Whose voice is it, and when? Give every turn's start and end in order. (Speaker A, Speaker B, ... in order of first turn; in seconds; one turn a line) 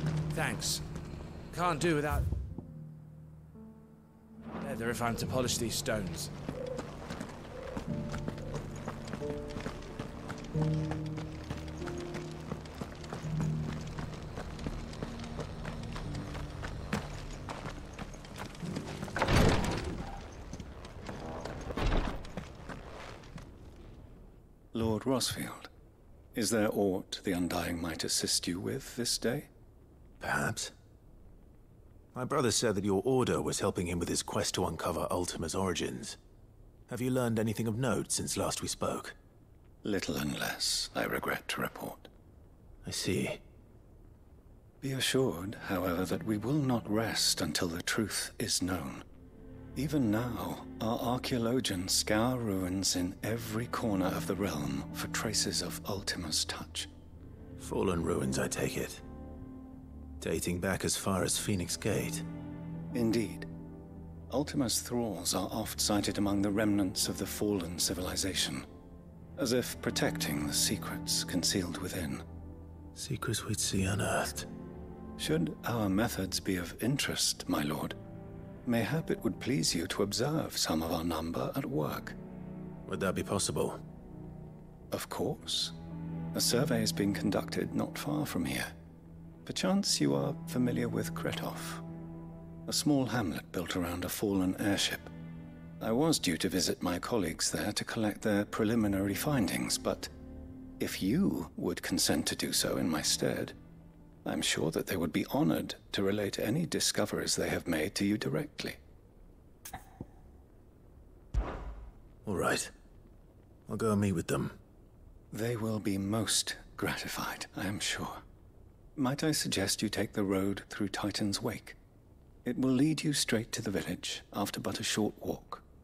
Speaker A: 0.3-0.8
Speaker A: 1.5-2.3
Speaker A: 4.6-6.3
Speaker B: 24.7-25.7
Speaker B: 26.4-29.5
Speaker C: 30.2-30.7
Speaker C: 32.1-36.2
Speaker C: 36.9-39.1
Speaker B: 39.8-42.1
Speaker C: 42.9-43.4
Speaker B: 44.8-49.0
Speaker B: 49.8-56.9
Speaker C: 57.6-59.0
Speaker C: 60.2-62.2
Speaker B: 62.9-63.5
Speaker B: 64.3-68.7
Speaker B: 69.4-72.2
Speaker C: 73.0-74.5
Speaker B: 75.2-78.0
Speaker B: 78.7-82.2
Speaker C: 82.9-83.8
Speaker B: 84.9-85.8
Speaker B: 86.3-88.7
Speaker B: 89.5-91.8
Speaker B: 92.7-95.1
Speaker B: 95.8-100.1
Speaker B: 100.8-103.6
Speaker B: 104.2-108.8
Speaker C: 112.2-112.7
Speaker C: 113.7-114.6
Speaker B: 115.3-118.2
Speaker B: 119.0-121.8
Speaker B: 122.5-125.6